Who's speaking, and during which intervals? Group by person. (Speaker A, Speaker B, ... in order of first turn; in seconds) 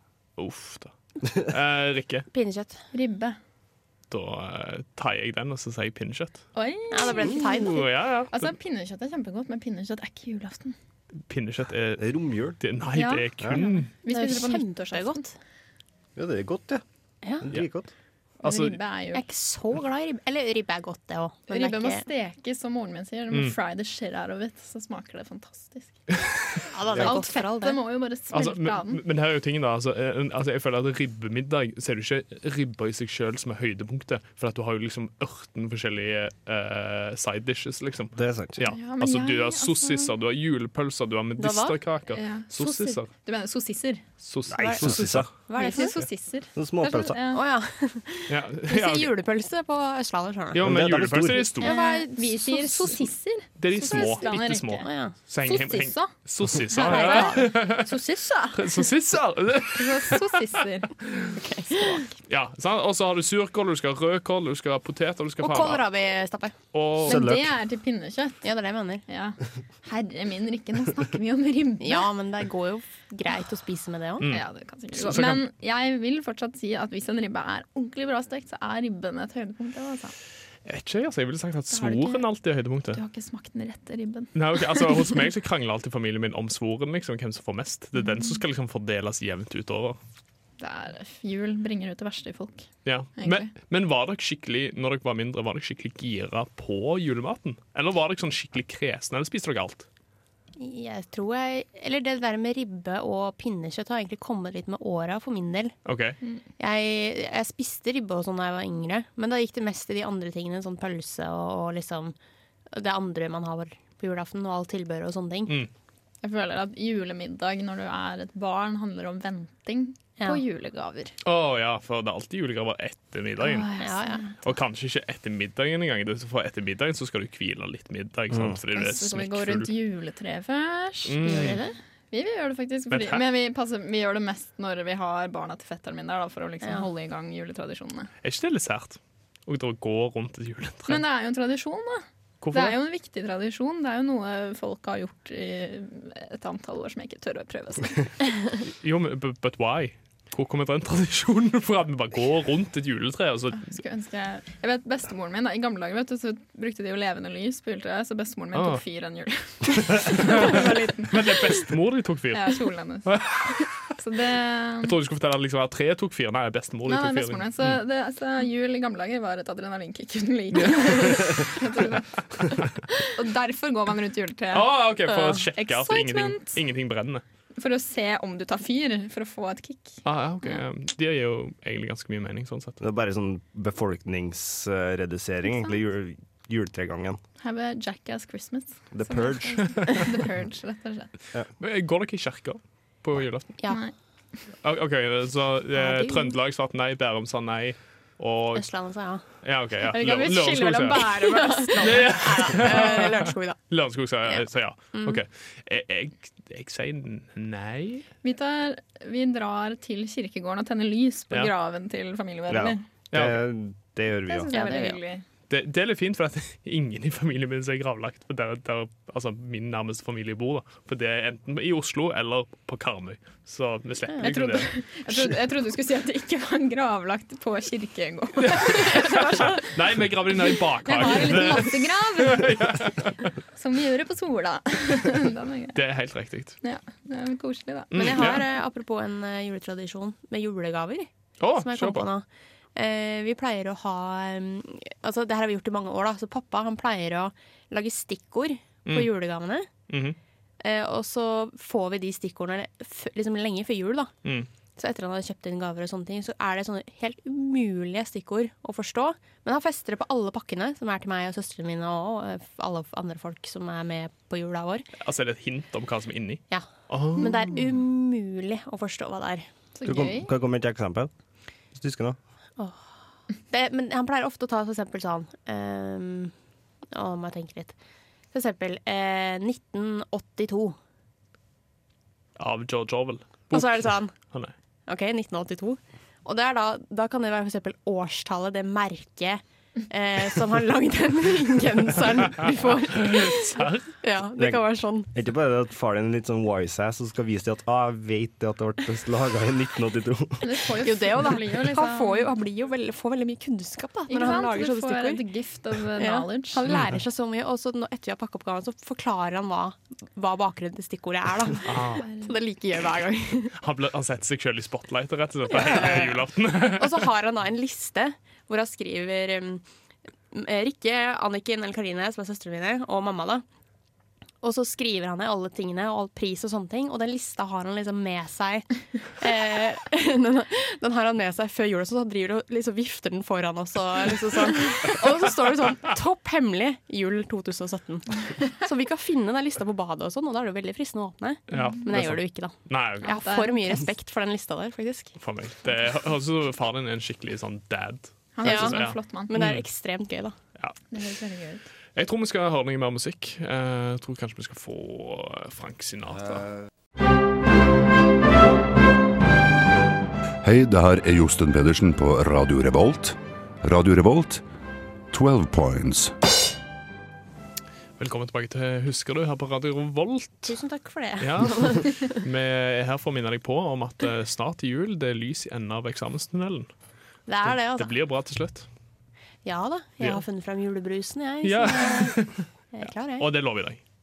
Speaker A: 0.4-2.3, 4.1-6.5, 7.3-8.5, 11.3-13.9, 18.4-18.8, 28.3-43.1, 44.2-45.3, 48.3-49.1, 50.5-51.7, 53.6-58.0, 58.5-61.3, 62.3-65.8, 66.7-67.3, 74.2-74.5, 75.0-75.4, 80.7-83.0, 84.3-90.0, 92.8-99.9, 105.8-106.2, 121.2-123.7, 124.4-129.7, 131.1-131.6, 132.9-133.2, 138.2-141.0, 142.4-142.8, 148.6-153.8, 158.5-158.8, 160.0-163.8, 164.8-167.8, 174.5-177.2, 180.0-182.8, 191.6-193.6, 194.6-198.7, 199.4-201.2, 201.8-208.1, 213.1-213.4, 215.5-224.7, 228.4-233.3, 235.8-236.6, 237.9-238.4, 241.4-242.1, 248.9-249.1, 249.9-250.2, 265.0-267.4, 282.4-284.5, 292.5-293.9, 306.7-306.9, 311.6-312.1, 313.6-317.1, 341.5-343.1, 345.2-349.7, 352.0-356.5, 368.0-370.6, 371.2-376.7, 377.4-378.7, 381.4-383.8
Speaker B: 2.3-2.8, 6.9-7.9, 14.1-15.3, 19.1-22.0, 26.7-27.8, 41.4-41.8, 44.6-46.0, 47.3-50.7, 51.6-53.0, 53.9-54.3, 54.8-55.1, 56.8-57.5, 61.3-62.1, 65.4-66.5, 68.4-69.0, 71.8-74.3, 100.6-105.8, 106.6-112.2, 112.7-115.6, 123.8-124.4, 131.2-131.8, 160.3-160.9, 195.8-196.3, 198.6-199.2, 201.1-203.6, 204.2-205.2, 214.5-215.0, 231.0-231.6, 237.9-249.7, 250.6-254.1, 254.8-264.9, 266.5-269.5, 273.5-276.3, 276.9-277.8, 278.3-280.8, 283.5-284.1, 284.9-293.5, 294.0-295.1, 300.8-305.2, 306.0-313.6, 315.5-319.6, 320.3-323.4, 324.4-345.1, 348.4-350.4, 370.5-372.1, 377.3-377.9, 379.4-382.2, 382.7-383.3
Speaker C: 2.9-3.4, 6.5-7.7, 8.3-10.8, 12.9-15.2, 18.4-19.2, 21.5-26.0, 26.9-29.0, 38.7-40.1, 42.1-44.0, 45.5-47.4, 51.6-56.1, 56.7-58.9, 59.7-60.9, 67.0-68.5, 69.1-72.1, 74.2-80.2, 81.7-82.2, 82.9-85.1, 88.0-88.3, 90.6-93.5, 116.2-121.2, 123.4-124.3, 128.7-131.6, 132.1-138.1, 140.9-148.1, 153.6-161.2, 162.3-164.9, 166.9-174.7, 175.6-176.6, 177.6-180.0, 187.4-191.1, 193.7-193.9, 199.9-202.5, 208.2-212.8, 214.3-215.2, 224.2-229.8, 230.4-232.9, 233.5-235.8, 236.6-238.2, 269.8-270.3, 300.4-302.3, 304.1-306.6, 312.0-312.3, 341.5-341.8, 343.1-343.8, 348.4-349.3, 350.9-351.7
Speaker D: 12.0-12.6, 16.2-16.8, 17.4-17.9, 38.2-38.6, 44.5-45.3, 46.5-47.2, 50.6-51.6, 67.0-67.5, 128.3-128.6, 182.8-187.2, 188.9-189.8, 212.5-214.5, 269.9-271.1, 271.7-272.2, 294.4-300.6
Speaker E: 360.4-363.1, 363.6-364.4, 365.1-366.1